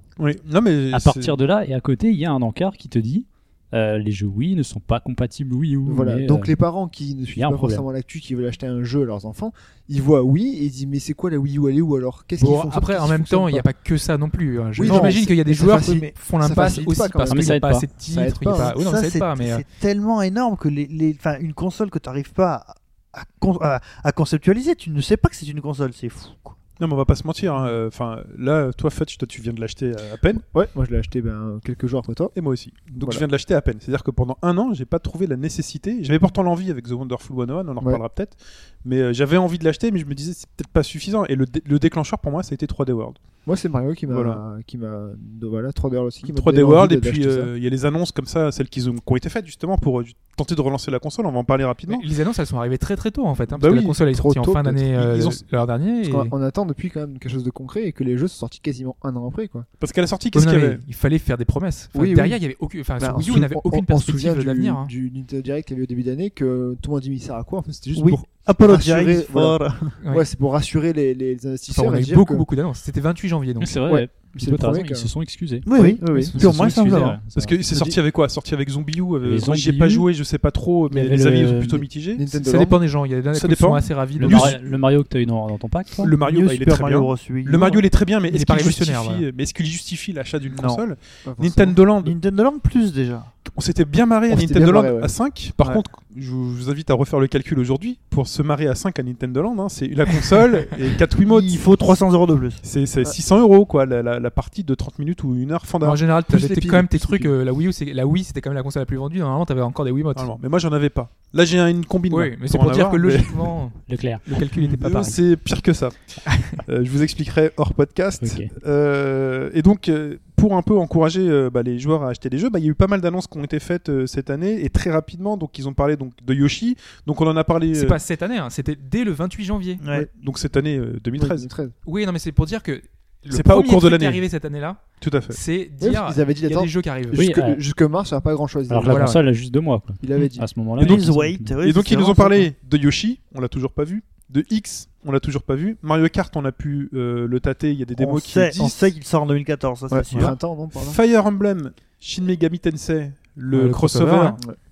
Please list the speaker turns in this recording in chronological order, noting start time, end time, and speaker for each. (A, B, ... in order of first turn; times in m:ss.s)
0:00.2-0:01.4 A
0:00.9-0:06.6 B
0:05.9-0:13.7 C
0:07.4-0:07.9 B
0:12.4-0:19.6 D
0:14.8-0:18.8 C
0:14.8-0:15.2 A
0:15.6-0:16.1 E
0:17.3-0:17.9 B
0:18.5-0:26.6 E
0:26.8-0:30.4 A
0:30.4-0:32.3 C
0:32.4-0:43.2 A
0:33.0-0:33.3 C
0:43.4-0:47.5 C
0:44.1-0:44.4 A
0:46.2-0:52.0 A
0:51.9-0:56.3 D
0:53.5-0:54.0 A
0:54.1-0:55.0 C
0:55.0-0:55.4 A
0:56.0-0:59.7 C
0:59.8-1:00.8 A
1:00.3-1:04.9 D
1:01.9-1:02.4 C
1:03.0-1:12.5 C
1:08.0-1:09.9 E
1:10.0-1:10.3 D
1:11.7-1:13.8 D
1:13.6-1:17.6 B
1:13.9-1:15.1 C
1:15.7-1:17.2 E
1:15.8-1:16.4 C
1:16.1-1:16.4 D
1:16.4-1:22.7 A
1:19.2-1:20.1 B
1:20.9-1:21.9 B
1:22.1-1:22.8 C
1:22.3-1:24.6 D
1:23.3-1:24.7 A
1:24.2-1:26.2 B
1:26.0-1:32.2 A
1:26.2-1:27.9 E
1:28.3-1:29.2 D
1:30.5-1:30.8 E
1:31.2-1:31.8 C
1:32.0-1:33.3 E
1:33.5-1:42.0 A
1:34.3-1:35.8 C
1:41.2-1:42.6 E
1:42.6-1:46.0 A
1:45.8-1:50.4 D
1:46.3-1:47.4 C
1:50.2-1:53.6 A
1:52.1-1:55.2 D
1:53.9-1:54.2 B
1:54.3-2:08.0 A
1:56.3-1:56.6 D
1:58.2-1:58.5 B
2:07.7-2:09.8 D
2:09.8-2:10.1 E
2:10.1-2:11.5 A
2:11.2-2:11.7 C
2:11.9-2:17.2 D
2:13.3-2:14.2 A
2:15.0-2:15.4 A
2:15.8-2:19.2 C
2:17.1-2:17.6 B
2:18.7-2:21.6 B
2:18.8-2:19.2 D
2:20.0-2:20.5 C
2:20.8-2:22.5 E
2:20.8-2:28.8 A
2:27.9-2:30.4 E
2:29.9-2:31.0 C
2:30.1-2:34.4 A
2:33.5-2:34.4 D